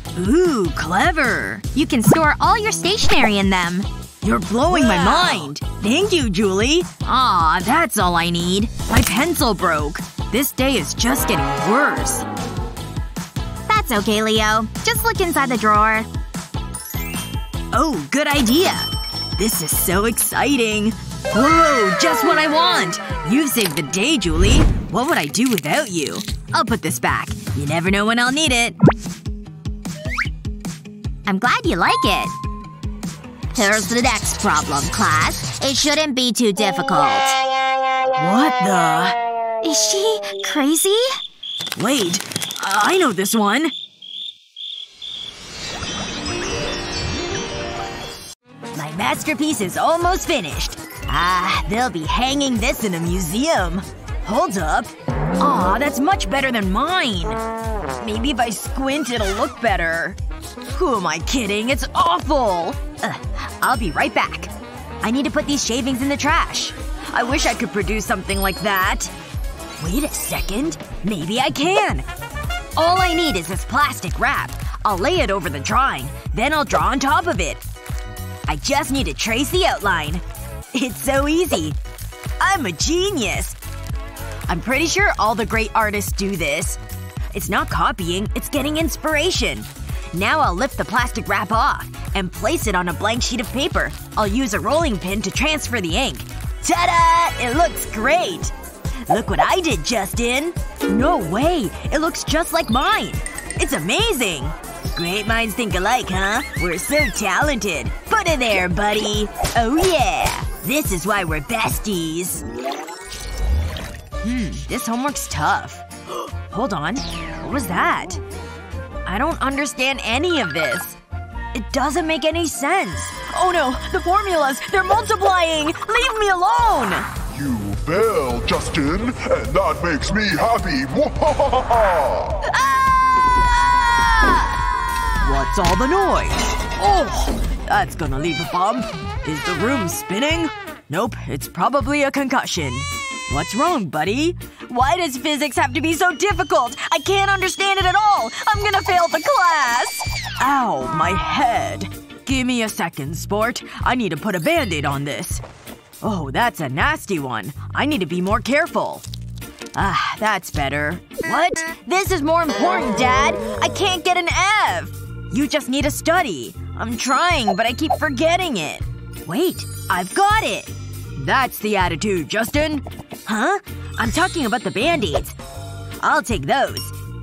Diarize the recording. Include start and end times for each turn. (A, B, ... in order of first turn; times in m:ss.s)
0:00.2-0:01.7 A
0:01.7-0:03.9 B
0:04.2-0:12.2 A
0:04.7-0:05.6 B
0:13.7-0:16.1 B
0:17.7-0:28.8 A
0:31.3-0:32.3 B
0:33.5-0:37.4 B
0:38.2-0:39.2 A
0:39.6-0:41.2 B
0:41.8-0:43.7 A
0:48.8-0:57.4 A
0:58.0-1:00.2 A
1:00.7-1:04.5 A
1:05.0-1:09.1 A
1:09.8-1:12.0 A
1:12.8-1:17.6 A
1:18.5-1:21.8 A
1:22.4-1:23.6 A
1:24.5-1:26.8 A
1:27.3-1:38.5 A
1:39.1-1:52.4 A
1:54.2-1:58.2 A
1:59.1-2:01.0 A
2:01.5-2:07.1 A
2:07.3-2:12.4 C
2:12.4-2:14.6 A
2:15.2-2:35.4 A
2:36.0-2:39.0 A
2:39.8-2:55.4 A
2:56.0-2:56.9 A